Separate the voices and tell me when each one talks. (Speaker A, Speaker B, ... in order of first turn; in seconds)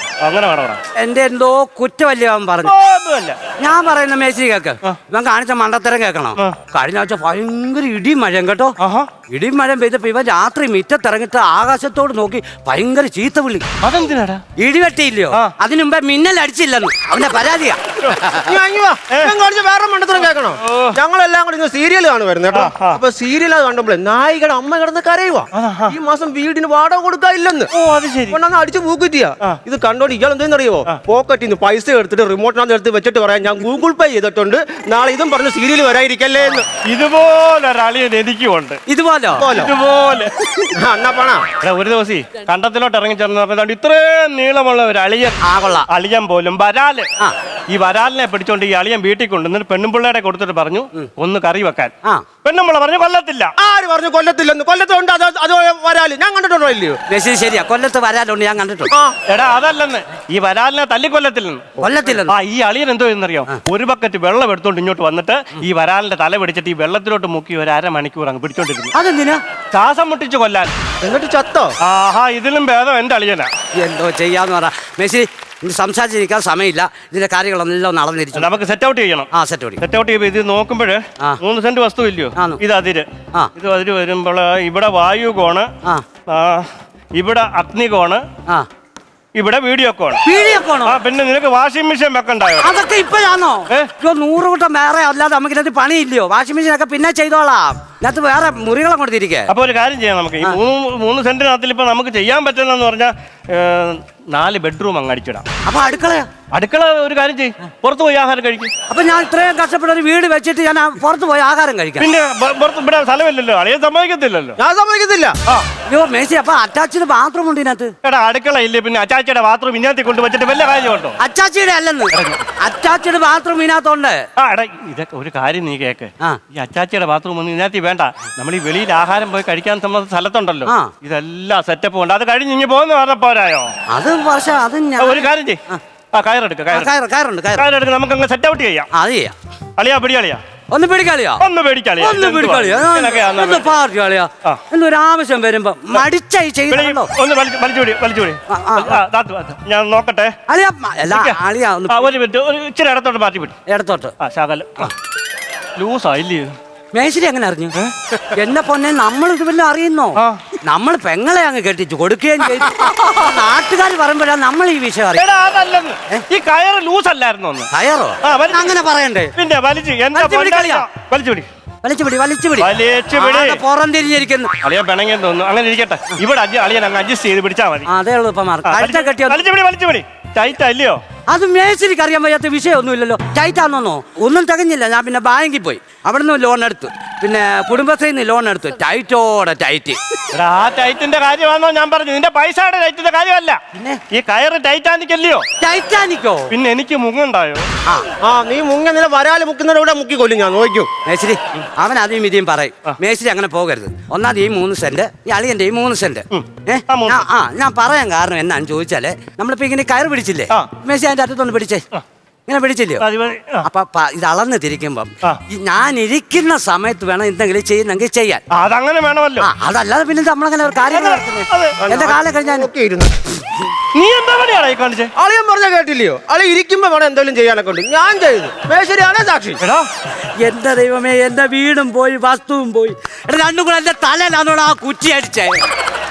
Speaker A: 0.2-0.8, 2.6-3.4, 8.8-9.1, 13.8-14.4, 20.6-21.0, 22.5-23.0, 25.5-26.0, 27.7-28.4, 36.8-38.8, 39.5-40.6, 41.6-45.4, 45.9-47.1, 47.7-51.9, 52.4-53.5, 59.3-61.7, 62.3-68.9, 69.7-70.7, 71.8-73.5, 78.3-79.3, 79.8-85.7, 86.3-88.2, 89.3-90.2, 90.8-92.7, 99.5-105.5, 106.5-108.7, 112.0-114.6, 118.0-121.2, 122.1-122.4, 124.4-133.7, 135.0-135.6, 136.1-136.9, 137.5-138.9, 139.8-140.4, 141.4-143.7, 146.7-150.3, 151.1-151.4, 151.9-153.6, 154.2-154.9, 155.8-156.5, 160.2-160.4, 165.1-167.7, 168.2-168.8, 169.3-171.5, 172.6-173.6, 174.6-177.9, 178.7-181.0, 190.3-193.6, 194.1-195.4, 196.5-197.7, 206.3-207.3, 213.0-213.7, 218.5-219.5, 220.9-221.8, 223.9-225.1, 229.6-229.9
Speaker B: 1.0-2.7, 3.6-8.7, 9.3-13.7, 14.6-18.5, 38.9-39.5, 45.4-45.9, 57.1-58.9, 61.8-62.3, 68.9-69.4, 73.7-78.5, 79.3-79.8, 82.3-82.6, 90.2-91.0, 92.6-99.5, 105.6-106.3, 108.9-112.1, 115.9-117.9, 121.2-124.2, 130.7-130.9, 133.9-135.8, 136.7-137.7, 138.9-139.3, 140.7-141.4, 142.0-147.1, 148.5-149.0, 150.5-152.1, 153.7-154.1, 156.9-157.8, 158.3-165.2, 167.7-169.3, 170.1-170.8, 171.8-174.5, 177.9-179.4, 181.3-190.0, 193.7-194.0, 195.6-196.5, 201.1-211.8, 212.5-213.0, 213.6-218.4, 219.4-222.7, 230.4-235.6
Speaker C: 18.4-27.7, 28.3-36.7, 39.4-39.7, 40.8-41.5, 53.6-57.0, 71.0-71.8, 114.6-115.3, 198.2-200.9, 221.8-223.1, 225.2-229.6